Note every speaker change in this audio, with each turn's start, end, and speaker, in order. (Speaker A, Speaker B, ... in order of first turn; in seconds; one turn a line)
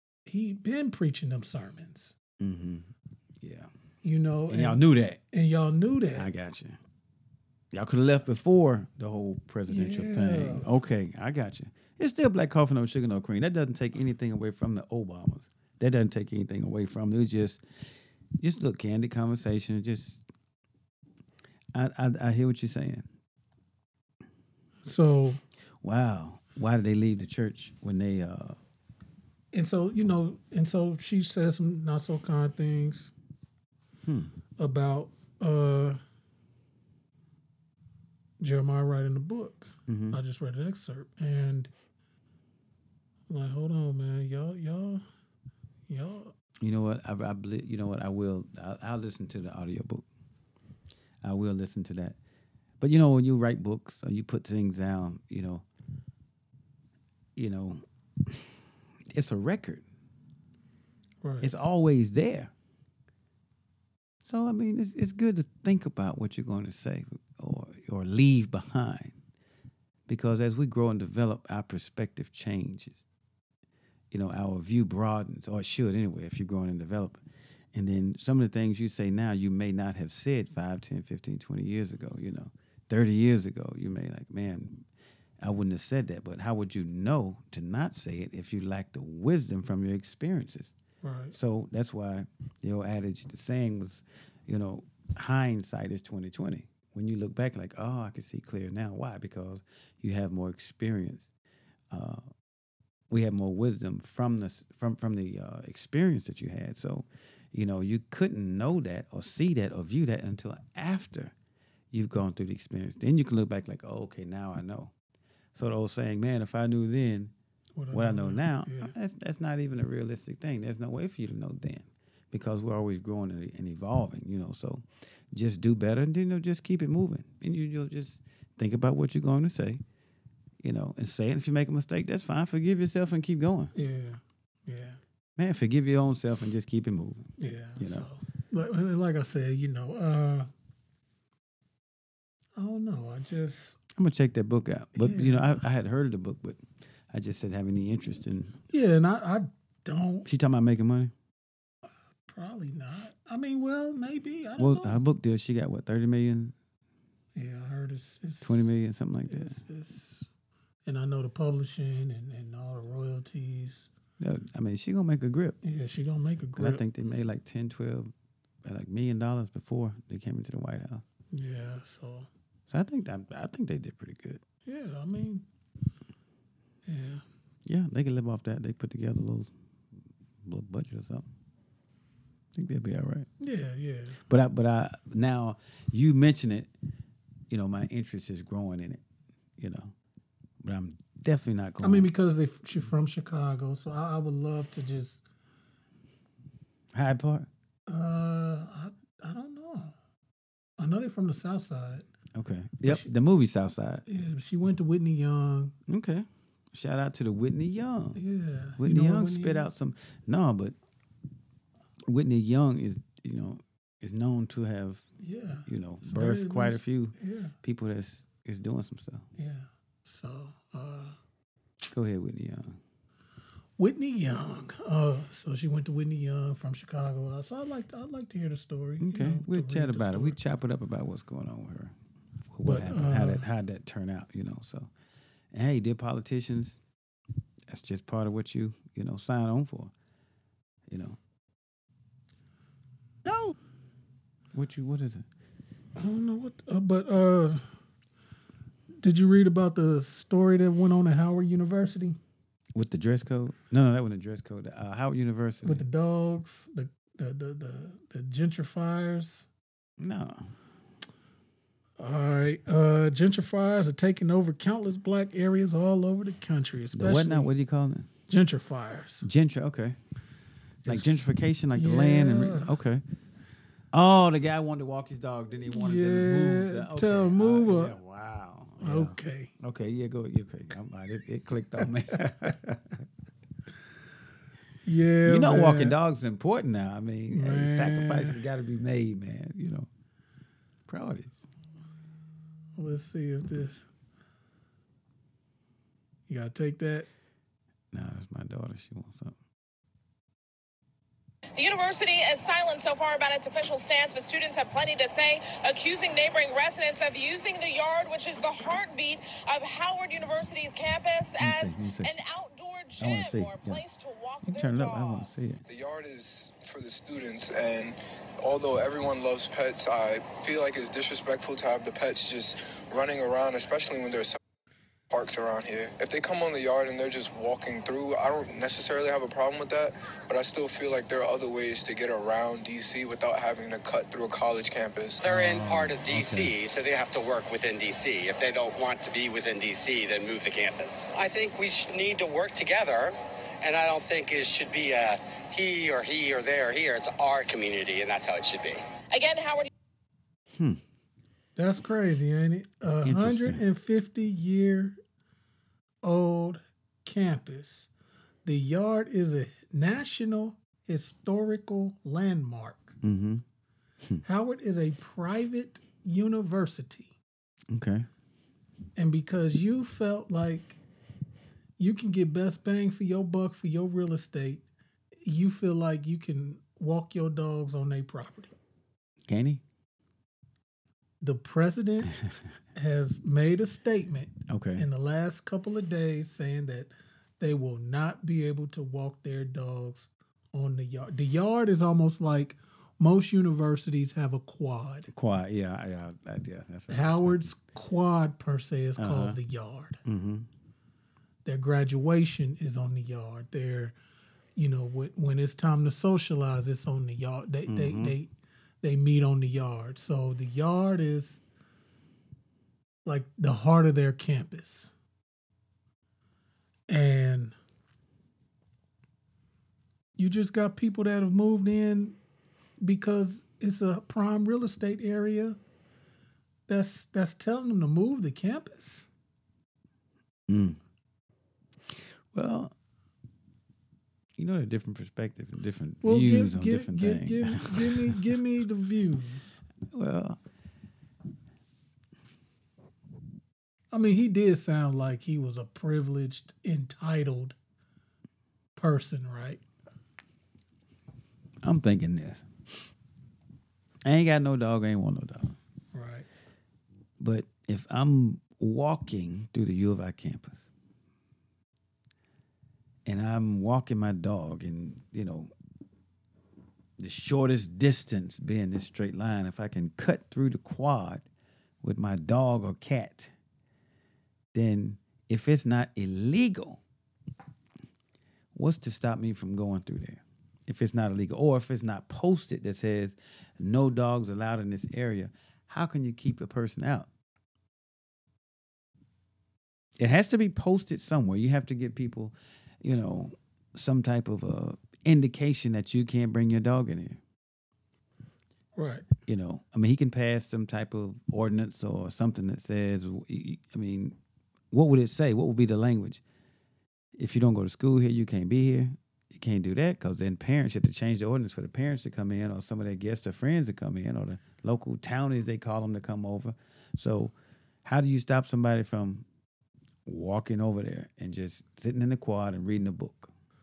Speaker A: 0.2-2.1
Speaker B: 2.4-3.7
Speaker A: 4.0-6.3
Speaker B: 4.5-5.2
Speaker B: 6.1-6.8
Speaker B: 7.7-17.6
Speaker A: 9.7-10.7
Speaker B: 18.4-20.2
Speaker B: 21.7-23.1
Speaker A: 24.8-25.4
Speaker B: 25.8-28.6
Speaker A: 29.5-33.1
Speaker B: 34.0-34.3
Speaker A: 34.6-36.0
Speaker A: 38.4-41.7
Speaker B: 39.9-40.2
Speaker A: 43.3-45.0
Speaker A: 45.9-46.3
Speaker B: 46.6-50.0
Speaker B: 51.2-52.2
Speaker B: 52.8-55.6
Speaker B: 57.4-58.5
Speaker B: 59.1-59.8
Speaker A: 61.2-61.5
Speaker B: 61.4-62.5
Speaker B: 64.2-69.2
Speaker B: 70.1-73.0
Speaker B: 74.1-77.2
Speaker B: 77.7-84.8
Speaker B: 85.4-90.7
Speaker A: 91.0-91.3
Speaker B: 91.3-101.3
Speaker B: 101.9-102.3
Speaker B: 103.1-111.3
Speaker B: 111.9-114.9
Speaker B: 115.5-117.3
Speaker A: 117.8-118.9
Speaker B: 117.9-129.8
Speaker B: 130.6-133.7
Speaker A: 133.7-135.0
Speaker B: 135.4-138.1
Speaker A: 137.4-140.5
Speaker A: 142.6-143.8
Speaker B: 143.9-148.6
Speaker A: 144.9-145.5
Speaker A: 148.7-150.3
Speaker B: 150.2-151.1
Speaker A: 152.3-155.0
Speaker B: 154.6-156.5
Speaker A: 157.3-158.7
Speaker B: 158.4-159.6
Speaker A: 159.2-160.3
Speaker A: 160.8-163.9
Speaker B: 164.2-165.6
Speaker A: 165.6-166.8
Speaker B: 166.6-168.1
Speaker B: 168.6-171.0
Speaker A: 171.3-172.3
Speaker B: 172.7-174.4
Speaker A: 174.7-175.4
Speaker A: 176.9-177.2
Speaker B: 177.7-179.5
Speaker B: 180.4-181.3
Speaker B: 182.5-183.3
Speaker A: 183.4-184.2
Speaker B: 184.3-186.7
Speaker B: 187.5-189.0
Speaker B: 189.6-189.9
Speaker B: 190.6-192.1
Speaker A: 191.8-195.2
Speaker B: 196.9-197.5
Speaker A: 197.9-199.9
Speaker A: 200.8-202.0
Speaker B: 202.3-204.0
Speaker A: 202.8-203.1
Speaker A: 204.1-205.7
Speaker B: 205.9-208.2
Speaker A: 208.2-209.7
Speaker B: 208.8-210.7
Speaker B: 212.1-215.0
Speaker A: 215.2-217.5
Speaker B: 215.6-219.2
Speaker A: 219.4-221.2
Speaker B: 221.9-222.8
Speaker A: 223.8-230.4
Speaker B: 229.0-231.9
Speaker B: 232.5-234.9
Speaker A: 232.6-233.4
Speaker B: 235.5-236.8
Speaker B: 237.7-239.9
Speaker B: 240.9-241.2
Speaker B: 244.5-245.2
Speaker A: 245.9-247.7
Speaker A: 249.0-252.2
Speaker B: 252.7-255.8
Speaker A: 255.6-259.4
Speaker B: 260.0-260.5
Speaker A: 262.0-267.5
Speaker B: 266.9-268.1
Speaker A: 268.3-269.2
Speaker B: 269.2-270.0
Speaker B: 270.8-273.0
Speaker A: 271.7-272.8
Speaker B: 273.9-283.0
Speaker A: 275.7-277.9
Speaker A: 278.8-279.5
Speaker A: 284.8-285.9
Speaker B: 285.2-289.9
Speaker A: 287.3-288.4
Speaker B: 290.9-291.4
Speaker A: 292.8-293.9
Speaker A: 296.3-297.1
Speaker B: 297.9-299.4
Speaker C: 301.6-315.3
Speaker B: 311.4-312.1
Speaker B: 313.0-313.8
Speaker B: 314.4-315.6
Speaker D: 315.7-324.4
Speaker D: 325.1-335.2
Speaker E: 335.2-348.8
Speaker B: 335.2-336.5
Speaker C: 349.1-349.7
Speaker B: 350.5-350.8
Speaker A: 351.6-355.0
Speaker B: 352.8-353.6
Speaker A: 356.0-357.9
Speaker A: 358.4-363.0
Speaker B: 363.0-363.4
Speaker A: 364.2-367.1
Speaker B: 367.7-368.1
Speaker A: 368.9-370.8
Speaker A: 371.8-374.6
Speaker A: 375.2-378.5
Speaker B: 379.2-379.6
Speaker A: 381.2-382.1
Speaker A: 382.7-395.1
Speaker B: 384.5-384.9
Speaker B: 395.1-397.5
Speaker A: 396.9-400.0
Speaker B: 399.0-399.4
Speaker B: 400.0-400.5
Speaker A: 401.4-403.9
Speaker A: 404.6-411.4
Speaker B: 407.7-408.1
Speaker A: 413.0-414.9
Speaker A: 416.9-417.5
Speaker A: 420.2-422.2
Speaker A: 422.8-425.6
Speaker A: 426.7-429.1
Speaker B: 430.5-430.8
Speaker B: 431.9-432.7
Speaker B: 434.4-438.2
Speaker A: 436.0-439.6
Speaker B: 439.9-440.4
Speaker A: 443.9-447.5
Speaker A: 448.7-449.6
Speaker B: 451.6-452.5
Speaker B: 454.0-455.6
Speaker A: 455.9-456.3
Speaker B: 457.2-460.7
Speaker B: 463.0-465.5
Speaker B: 467.0-471.2
Speaker B: 471.8-473.3
Speaker B: 474.5-476.8
Speaker B: 478.5-487.1
Speaker B: 490.0-497.2
Speaker A: 498.8-499.0
Speaker B: 499.2-504.1
Speaker B: 504.7-506.2
Speaker B: 507.1-517.3
Speaker B: 517.8-519.2
Speaker B: 520.0-523.3